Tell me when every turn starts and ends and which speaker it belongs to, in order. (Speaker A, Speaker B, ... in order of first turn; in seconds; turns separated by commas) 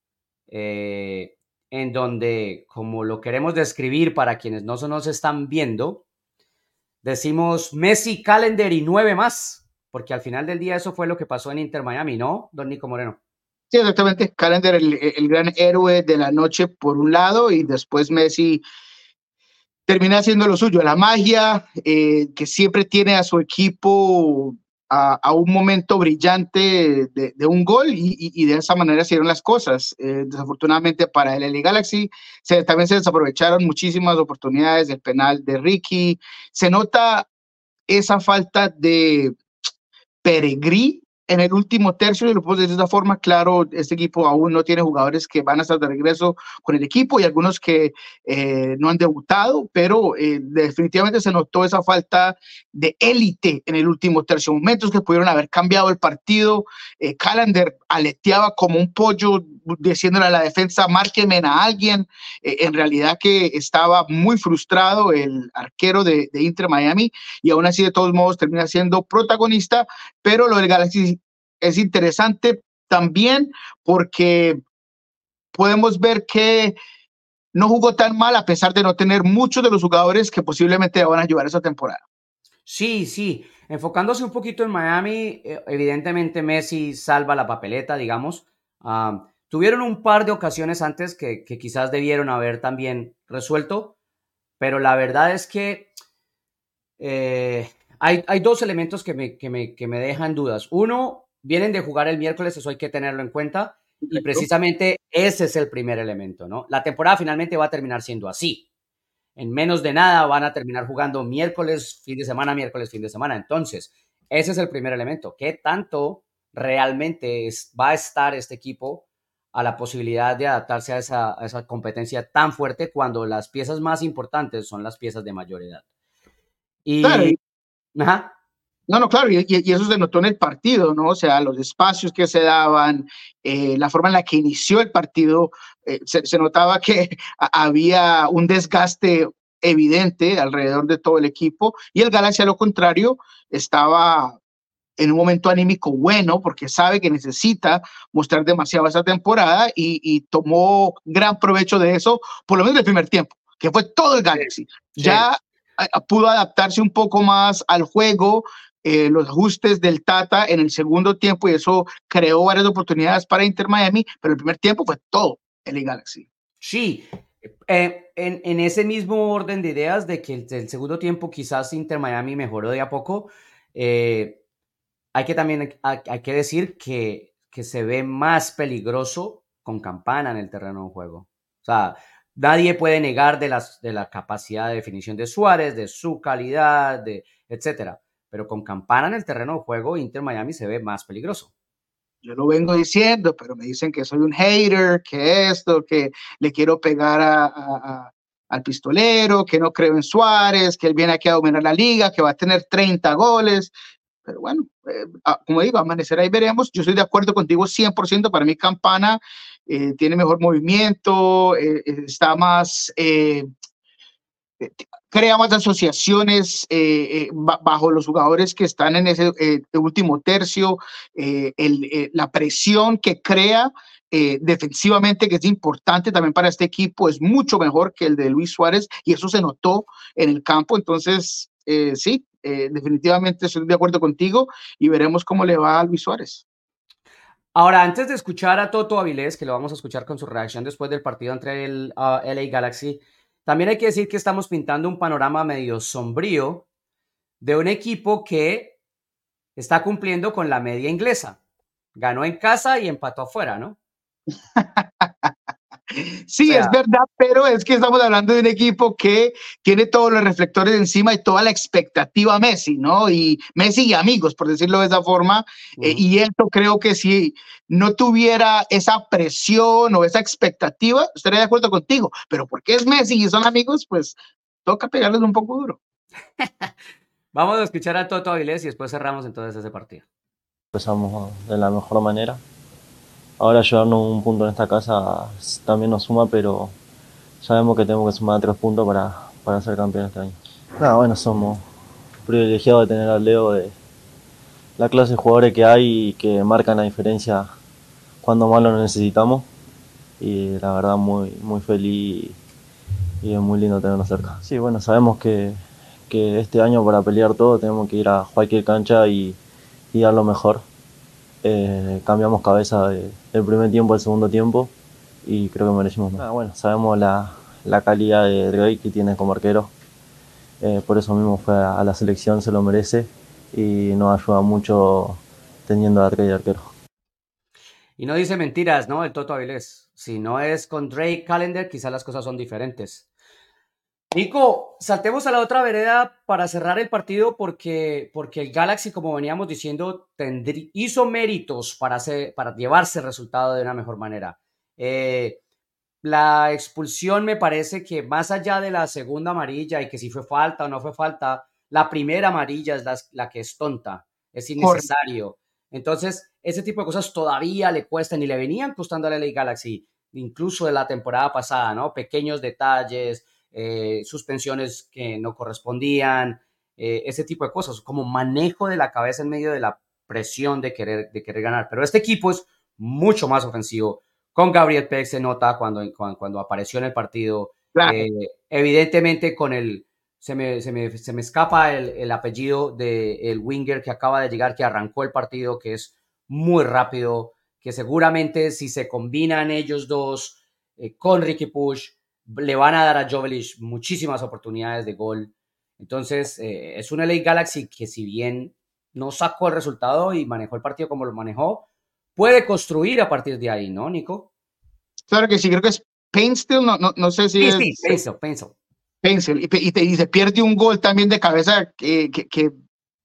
Speaker A: 0.5-6.0, Speaker A: 7.0-13.2, Speaker B: 13.7-18.6, Speaker B: 19.9-37.3, Speaker B: 37.9-39.4, Speaker B: 40.2-74.6, Speaker B: 75.5-76.8, Speaker B: 77.5-82.0, Speaker A: 82.7-93.9, Speaker A: 94.6-95.9, Speaker A: 97.0-108.7, Speaker B: 104.0-104.5, Speaker A: 109.4-125.8, Speaker A: 126.8-127.4, Speaker B: 127.0-127.4, Speaker A: 128.0-128.3, Speaker B: 128.9-144.4, Speaker B: 145.0-166.3, Speaker A: 155.0-155.2, Speaker A: 166.6-167.1, Speaker A: 167.7-174.4, Speaker A: 175.1-191.5, Speaker B: 192.2-203.7, Speaker B: 204.3-213.5, Speaker B: 214.6-236.4, Speaker A: 237.6-246.7, Speaker A: 247.4-248.8, Speaker A: 249.6-251.4, Speaker A: 252.0-253.8, Speaker B: 254.6-255.3, Speaker B: 255.9-275.8, Speaker A: 256.4-256.8, Speaker A: 276.4-276.7, Speaker A: 277.3-280.1, Speaker C: 280.7-282.4, Speaker C: 283.4-286.7, Speaker C: 287.4-291.6, Speaker C: 292.2-293.7, Speaker C: 294.8-297.5, Speaker C: 298.2-299.5, Speaker C: 300.2-302.4, Speaker C: 303.2-309.4, Speaker C: 309.9-310.6, Speaker C: 311.4-314.7, Speaker C: 315.2-319.7, Speaker C: 320.6-326.7, Speaker A: 328.0-333.1, Speaker A: 334.1-345.4, Speaker A: 346.0-404.3, Speaker B: 354.6-354.9, Speaker B: 377.7-378.0, Speaker B: 405.1-408.0, Speaker A: 407.4-408.5, Speaker B: 409.0-412.5